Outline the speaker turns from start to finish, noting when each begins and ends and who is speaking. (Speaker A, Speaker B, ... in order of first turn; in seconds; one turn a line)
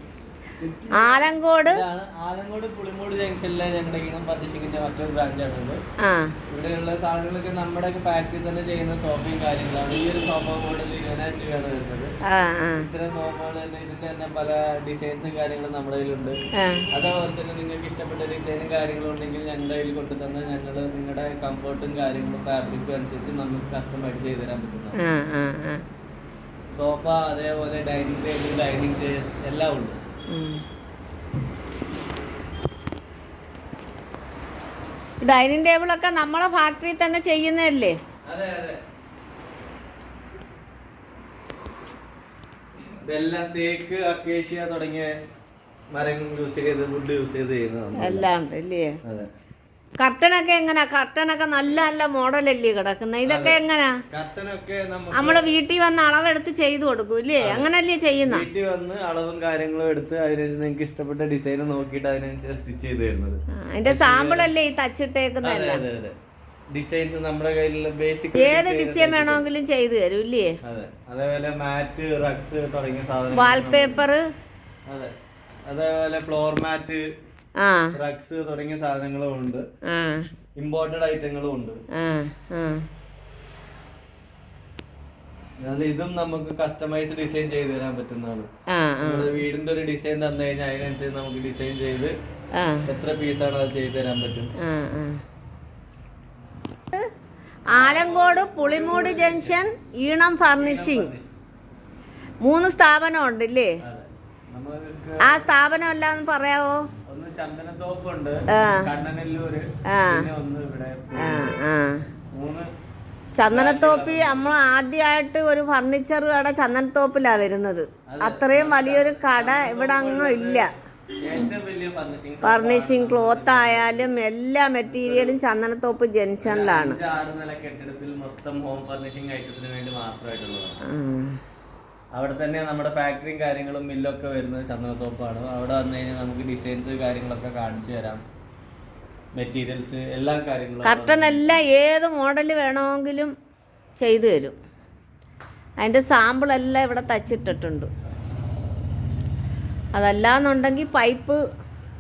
Speaker A: 0.6-5.8
Speaker B: 0.9-1.8
Speaker B: 6.0-6.3
Speaker A: 6.5-12.1
Speaker B: 12.3-12.9
Speaker A: 12.8-16.4
Speaker B: 16.6-16.9
Speaker A: 16.9-25.0
Speaker B: 25.0-25.8
Speaker A: 26.8-30.0
Speaker B: 30.3-30.6
Speaker B: 35.2-38.0
Speaker A: 38.3-38.8
Speaker A: 43.0-45.1
Speaker A: 45.9-48.3
Speaker B: 48.0-49.0
Speaker A: 49.0-49.3
Speaker B: 50.0-54.0
Speaker A: 53.3-53.6
Speaker A: 54.1-55.5
Speaker B: 55.1-58.5
Speaker A: 57.4-57.7
Speaker A: 58.3-64.5
Speaker B: 63.6-65.8
Speaker A: 65.4-66.1
Speaker A: 66.7-69.5
Speaker B: 68.4-70.5
Speaker A: 70.6-74.1
Speaker B: 73.3-74.2
Speaker A: 75.7-77.0
Speaker B: 77.6-77.9
Speaker A: 77.9-79.6
Speaker B: 79.9-80.3
Speaker A: 80.6-81.8
Speaker B: 82.0-82.9
Speaker A: 85.6-88.5
Speaker B: 88.7-89.4
Speaker A: 89.0-92.1
Speaker B: 92.5-92.9
Speaker A: 92.9-94.5
Speaker B: 94.6-95.2
Speaker A: 97.7-99.6
Speaker B: 97.8-101.1
Speaker A: 100.5-101.4
Speaker B: 102.4-103.7
Speaker A: 103.8-105.5
Speaker B: 105.2-106.8
Speaker A: 107.1-111.5
Speaker B: 108.5-108.9
Speaker B: 109.9-110.3
Speaker B: 111.2-112.1
Speaker A: 112.3-112.7
Speaker B: 113.4-120.7
Speaker A: 113.5-114.5
Speaker A: 118.1-124.1
Speaker B: 122.4-127.0
Speaker A: 124.8-125.4
Speaker A: 126.4-130.8
Speaker B: 130.9-131.4
Speaker A: 132.2-138.2
Speaker A: 139.4-141.6
Speaker B: 140.8-143.3
Speaker B: 144.0-144.6
Speaker B: 145.8-147.9
Speaker B: 149.9-151.4